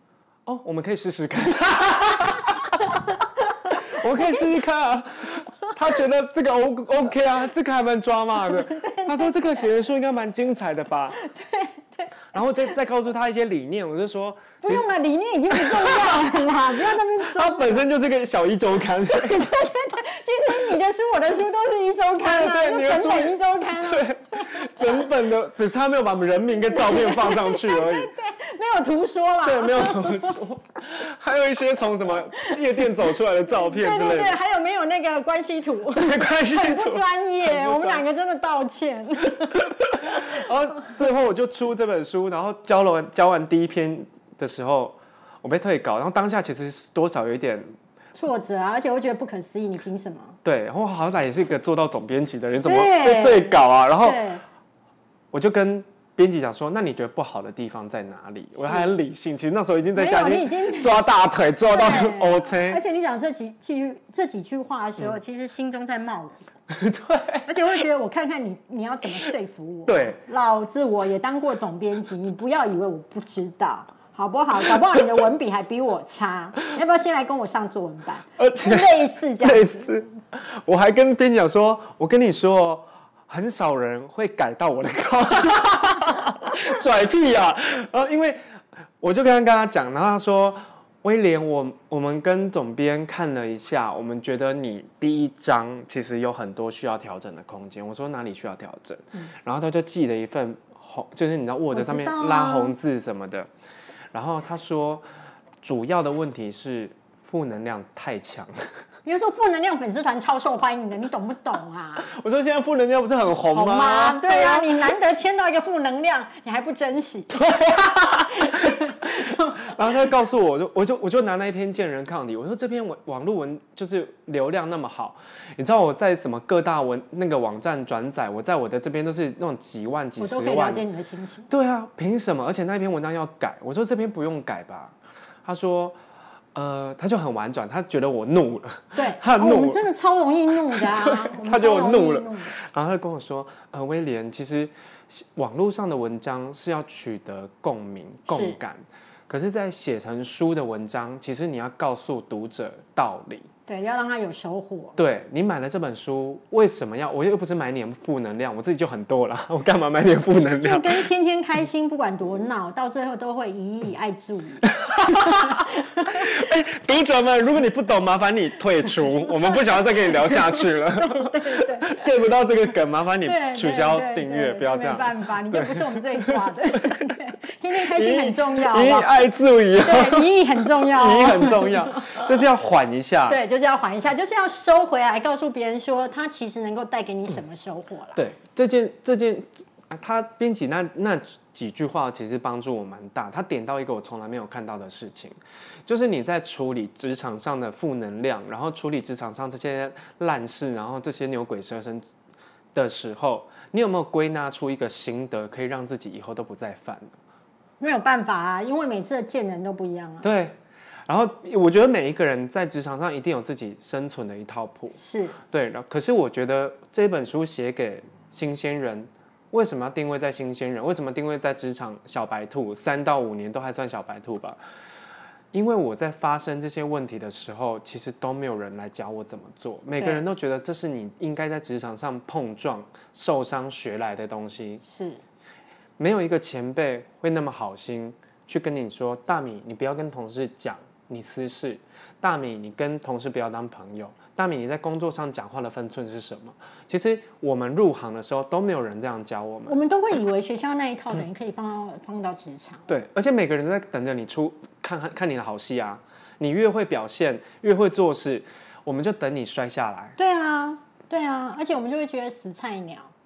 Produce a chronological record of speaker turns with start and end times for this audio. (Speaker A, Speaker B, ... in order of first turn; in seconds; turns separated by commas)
Speaker A: 0.5-11.2, Speaker B: 2.8-4.4, Speaker B: 8.5-9.7, Speaker B: 11.2-12.7, Speaker A: 12.3-14.9, Speaker B: 14.6-17.8, Speaker A: 15.5-19.5, Speaker B: 19.1-25.1, Speaker A: 22.2-28.1, Speaker B: 26.6-30.4, Speaker A: 29.4-34.4, Speaker B: 33.5-40.5, Speaker A: 35.9-38.0, Speaker A: 39.4-47.7, Speaker B: 48.2-50.4, Speaker A: 50.4-54.2, Speaker B: 52.6-54.4, Speaker A: 55.3-62.8, Speaker B: 58.6-58.9, Speaker B: 60.0-61.0, Speaker B: 61.7-66.5, Speaker A: 66.7-67.5, Speaker B: 67.5-79.9, Speaker A: 69.9-70.2, Speaker A: 78.4-88.4, Speaker A: 89.0-103.5, Speaker B: 101.7-102.7, Speaker A: 104.1-105.0, Speaker A: 105.6-108.7, Speaker B: 109.0-112.1, Speaker A: 112.0-114.7, Speaker B: 113.5-117.4, Speaker A: 117.3-130.8, Speaker B: 118.3-120.0, Speaker B: 130.2-131.5, Speaker A: 131.5-136.0, Speaker A: 136.5-139.8, Speaker B: 138.9-142.5, Speaker A: 140.7-153.5, Speaker B: 148.3-148.6, Speaker B: 153.7-155.0, Speaker A: 155.0-161.1, Speaker B: 160.6-166.3, Speaker A: 164.8-177.0, Speaker B: 170.3-171.9, Speaker B: 173.2-179.1, Speaker A: 177.8-183.4, Speaker B: 179.8-182.3, Speaker B: 183.3-188.2, Speaker A: 188.2-202.1, Speaker A: 202.7-207.2, Speaker B: 207.8-210.3, Speaker A: 210.2-224.6, Speaker B: 214.9-215.4, Speaker A: 225.5-234.8, Speaker B: 230.0-230.2, Speaker B: 234.8-235.2, Speaker A: 236.0-249.8, Speaker B: 249.7-252.9, Speaker A: 252.9-260.2, Speaker B: 260.2-263.1